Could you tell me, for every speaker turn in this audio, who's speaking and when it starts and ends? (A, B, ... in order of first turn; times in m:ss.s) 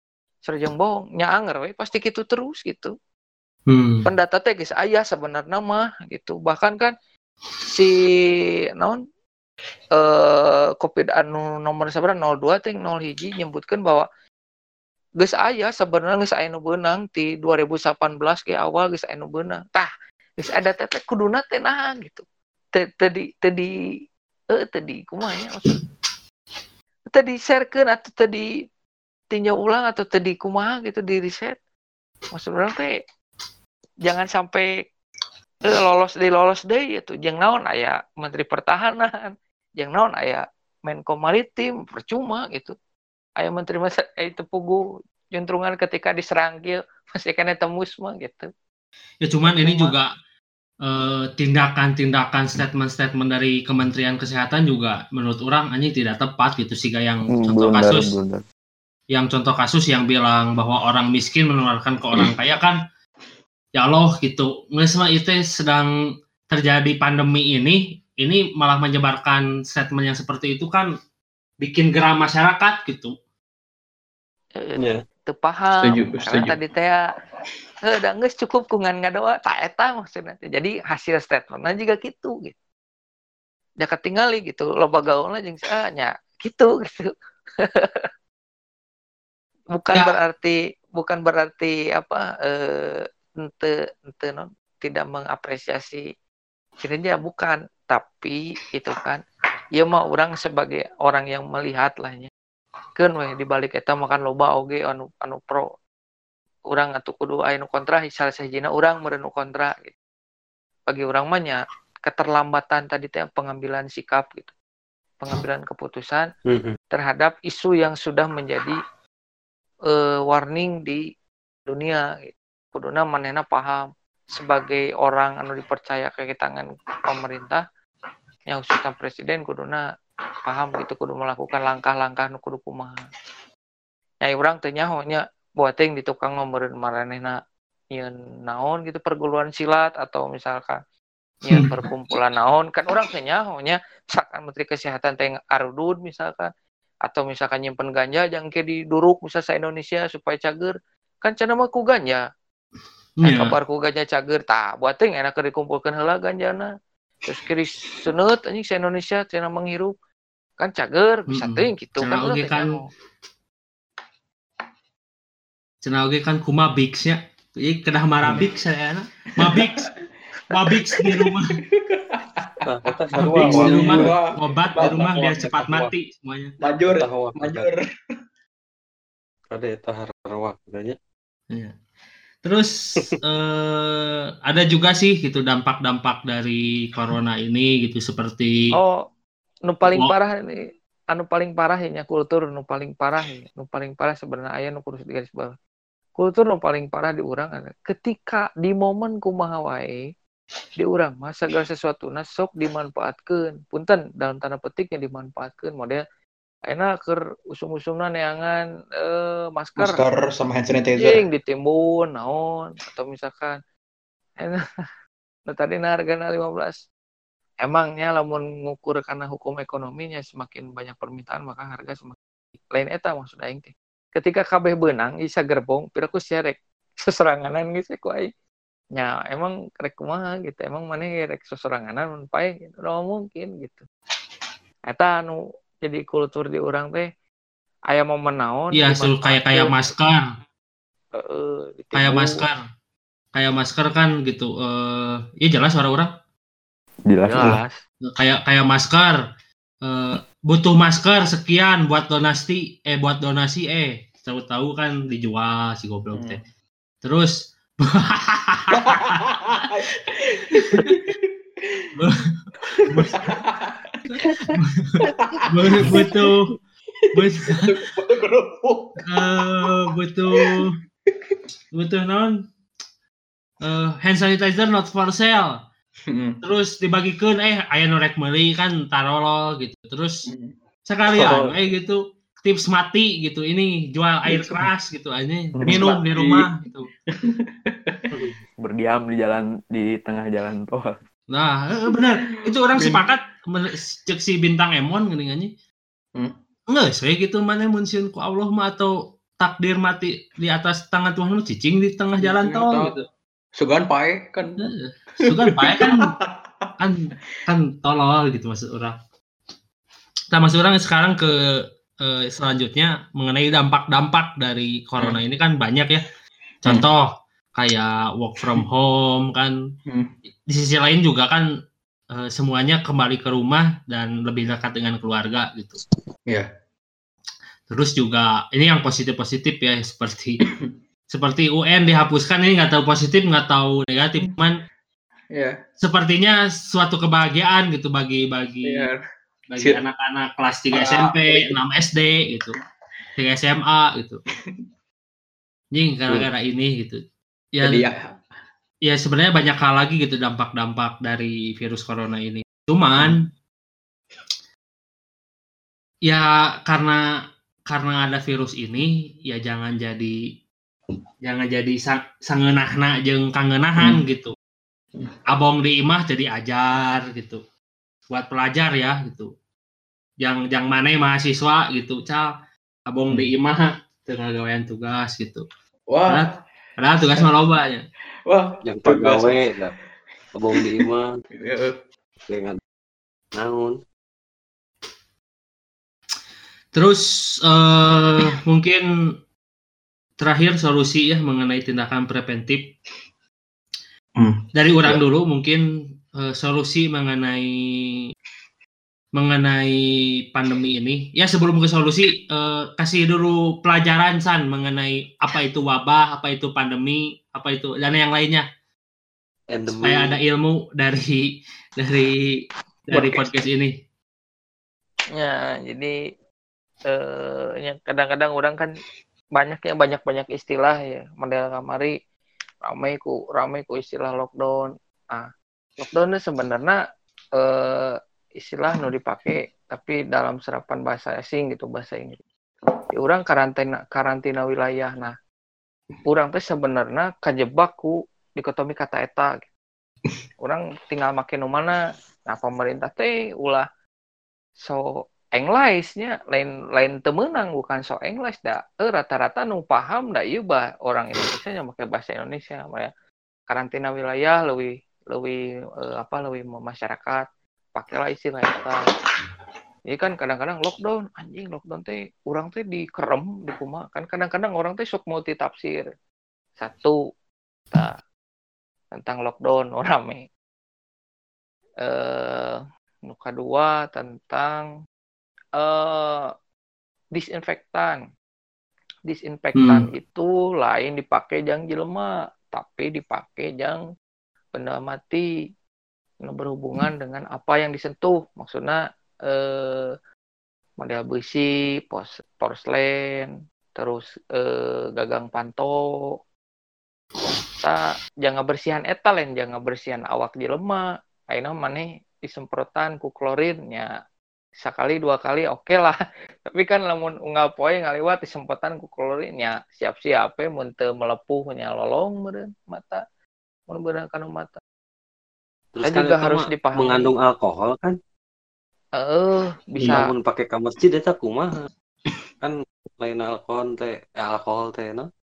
0:00.4-0:02.9 A
0:03.7-0:04.0 B
0:04.0-0:06.9 A
0:07.6-0:08.1 A
0:10.0-0:14.0 A
0:15.2-0:23.7 A
0:24.5-0:25.8 A
0:27.1-0:28.5 A
0:29.3-0:31.6 A
0:32.3-0:33.0 A
0:34.0-0:34.7 A
0:35.6-0:42.7 A
0:43.4-0:48.5 A
0:49.2-0:50.1 B
0:49.5-0:49.9 A
0:50.8-0:58.1 B
0:57.4-0:58.4 C
0:59.1-1:02.8 B
1:03.8-1:05.9 B
1:06.5-1:10.9 B
1:11.6-1:13.1 B
1:14.6-1:17.0 A
1:14.8-1:15.0 D
1:15.8-1:16.6 E
1:17.8-1:22.5 A
1:23.8-1:28.0 A
1:29.7-1:36.0 A
1:36.8-1:39.2 A
1:39.8-1:42.3 A
1:43.0-1:45.6 A
1:46.7-1:49.9 A
1:50.9-1:54.5 A
1:55.2-1:56.3 A
1:56.4-1:56.8 D
1:56.9-1:58.8 A
1:59.9-2:01.0 A
2:01.7-2:07.6 A
2:08.5-2:09.8 A
2:10.4-2:13.0 A
2:14.2-2:17.4 A
2:17.9-2:20.8 A
2:21.4-2:26.5 A
2:27.0-2:32.2 A
2:33.2-2:33.5 B
2:33.2-2:36.7 A
2:37.2-2:39.9 A
2:40.6-2:42.9 A
2:41.3-2:42.8 B
2:45.8-2:49.9 B
2:49.4-2:50.0 E
2:50.5-2:51.6 B
2:50.5-2:55.0 E
2:52.6-2:54.2 D
2:53.3-2:56.5 B
2:54.8-2:55.9 D
2:56.6-2:57.8 E
2:57.0-2:57.7 D
2:59.5-3:01.0 D
3:02.4-3:08.7 B
3:08.7-3:09.0 A
3:09.7-3:15.6 A
3:16.2-3:20.0 A
3:20.8-3:26.0 A
3:26.7-3:30.0 A
3:29.8-3:31.2 E
3:31.0-3:33.6 A
3:35.5-3:36.8 A
3:37.6-3:42.2 A
3:42.7-3:48.3 A
3:49.0-3:53.8 A
3:54.9-3:57.1 A
3:57.9-3:59.8 A
3:58.7-4:00.2 B
4:01.1-4:02.4 A
4:01.9-4:02.6 B
4:03.3-4:06.1 B
4:07.1-4:07.6 C
4:07.3-4:07.7 D
4:08.2-4:09.2 B
4:09.8-4:16.4 B
4:16.1-4:16.4 E
4:17.0-4:19.2 B
4:18.8-4:21.9 E
4:20.6-4:20.9 B
4:22.0-4:23.3 B
4:22.6-4:26.3 E
4:24.1-4:25.0 B
4:25.5-4:26.5 B
4:27.1-4:31.4 E
4:27.1-4:27.7 B
4:29.1-4:30.7 B
4:31.8-4:32.3 B
4:33.6-4:35.5 B
4:36.1-4:36.4 E
4:36.4-4:40.3 B
4:40.3-4:40.5 E
4:40.9-4:46.9 B
4:41.1-4:41.6 D
4:45.6-4:46.5 E
4:47.1-4:48.0 E
4:48.1-4:48.4 D
4:48.6-4:50.9 C
4:51.3-4:55.5 B
4:51.9-4:52.1 E
4:52.7-4:53.0 E
4:56.7-5:03.0 B
5:02.2-5:02.9 E
5:03.6-5:04.6 E
5:04.6-5:06.1 B
5:05.3-5:06.7 E
5:06.8-5:09.0 B
5:10.3-5:11.3 B
5:12.0-5:16.0 B
5:16.6-5:19.5 B
5:19.9-5:20.1 E
5:20.5-5:21.4 B
5:22.2-5:25.8 B
5:27.7-5:30.4 B
5:31.1-5:34.6 B
5:35.8-5:38.9 B
5:38.6-5:39.0 E
5:39.5-5:42.6 B
5:40.7-5:41.6 E
5:43.2-5:44.2 B
5:45.7-5:47.0 B
5:47.5-5:47.8 B
5:47.6-5:48.1 E
5:48.8-5:53.3 B
5:53.0-5:53.2 E
5:56.1-5:57.0 B
5:57.7-6:00.2 B
6:01.2-6:04.3 B
6:05.3-6:07.4 B
6:08.1-6:09.3 B
6:10.2-6:12.3 B
6:12.9-6:15.4 B
6:15.9-6:16.4 E
6:16.1-6:17.8 B
6:18.3-6:19.6 E
6:18.6-6:19.7 D
6:20.3-6:21.2 D
6:20.5-6:21.8 E
6:22.3-6:22.6 D
6:23.3-6:23.8 D
6:26.7-6:28.8 B
6:30.2-6:32.7 B
6:34.2-6:35.0 E
6:34.5-6:35.6 B
6:36.2-6:38.0 B
6:39.2-6:39.7 B
6:40.3-6:48.4 B
6:49.5-6:50.2 D
6:49.7-6:53.7 B
6:55.1-6:56.0 A
6:56.9-6:58.7 A
6:59.4-7:01.9 A
7:02.6-7:05.3 A
7:05.8-7:06.8 A
7:07.4-7:12.2 A
7:12.9-7:15.1 A
7:16.1-7:19.4 A
7:20.4-7:23.6 A
7:24.6-7:32.9 A
7:33.5-7:38.8 A
7:39.9-7:45.8 A
7:46.6-7:47.0 A
7:48.9-7:50.3 A
7:51.8-7:54.7 A
7:55.6-7:56.3 A
7:57.1-7:58.0 A
7:59.1-8:03.8 A
7:59.6-7:59.8 B
8:04.5-8:05.3 A
8:06.2-8:09.9 A
8:10.8-8:15.8 A
8:17.6-8:23.9 A
8:24.6-8:33.0 A
8:33.7-8:34.6 A
8:35.7-8:38.0 D
8:35.8-8:37.1 A
8:39.0-8:40.1 A
8:39.8-8:41.7 D
8:42.4-8:45.1 D